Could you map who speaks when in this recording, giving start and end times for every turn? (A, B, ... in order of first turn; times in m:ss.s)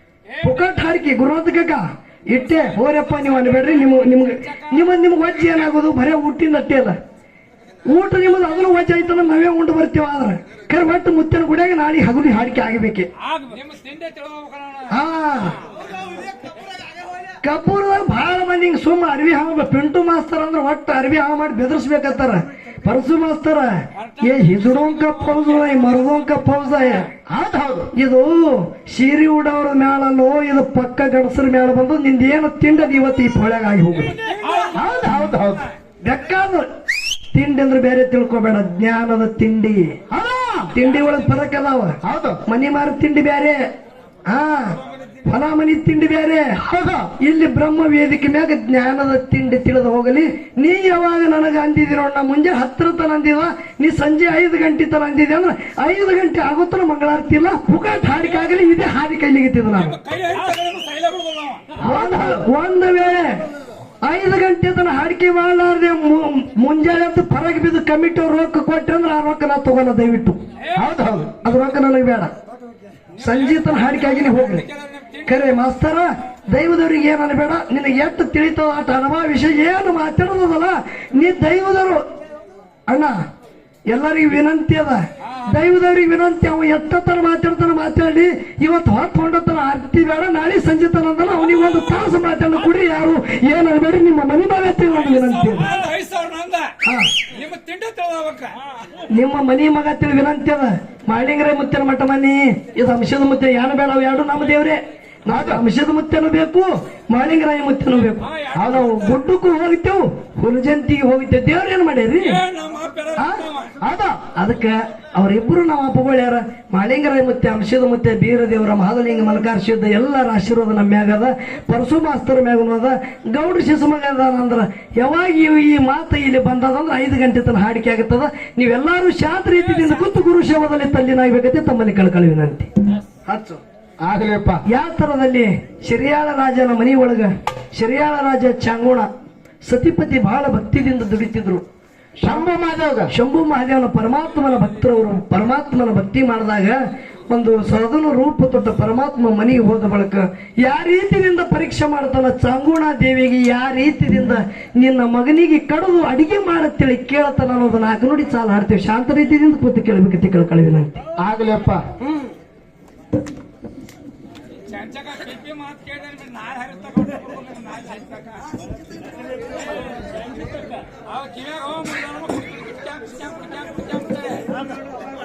0:00.3-0:01.0 A
0:00.4-0:07.0 B
0:02.4-0:05.5 A
0:07.9-0:13.1 B
0:13.2-0:15.1 A
0:14.9-0:15.6 B
0:17.4-0:27.1 B
0:24.0-0:27.1 A
0:27.3-0:27.9 C
0:28.0-0:34.2 B
0:34.0-0:35.6 A
0:34.8-0:35.6 C
0:36.0-0:36.7 B
0:37.3-0:40.0 B
0:40.1-0:40.7 C
0:40.7-0:43.6 B
0:42.0-0:42.4 C
0:44.3-0:46.6 B
0:46.6-0:47.1 C
0:47.2-1:00.0 B
0:58.2-0:58.7 A
0:59.8-1:01.7 A
1:01.8-1:02.5 C
1:01.8-1:03.4 B
1:04.0-1:10.4 B
1:10.6-1:10.9 A
1:10.7-1:11.3 C
1:11.4-1:12.3 B
1:13.2-1:14.7 B
1:13.2-1:15.5 A
1:15.3-1:22.0 B
1:22.9-1:23.2 B
1:23.9-1:35.7 B
1:25.2-1:25.6 A
1:31.5-1:32.0 A
1:34.9-1:36.7 A
1:36.8-1:37.1 B
1:37.3-1:38.6 A
1:39.1-1:52.4 B
1:45.3-1:45.6 C
1:48.0-1:49.2 A
1:48.5-1:48.9 C
1:52.2-1:53.8 A
1:53.2-1:53.4 B
1:53.8-1:54.2 C
1:54.4-2:12.7 B
2:09.6-2:10.2 A
2:13.3-2:13.6 B
2:14.0-2:14.6 C
2:14.7-2:19.1 B
2:19.7-2:21.6 B
2:22.2-2:23.1 C
2:23.1-2:41.0 B
2:41.2-2:41.8 C
2:44.7-2:48.6 A
2:50.0-2:54.6 A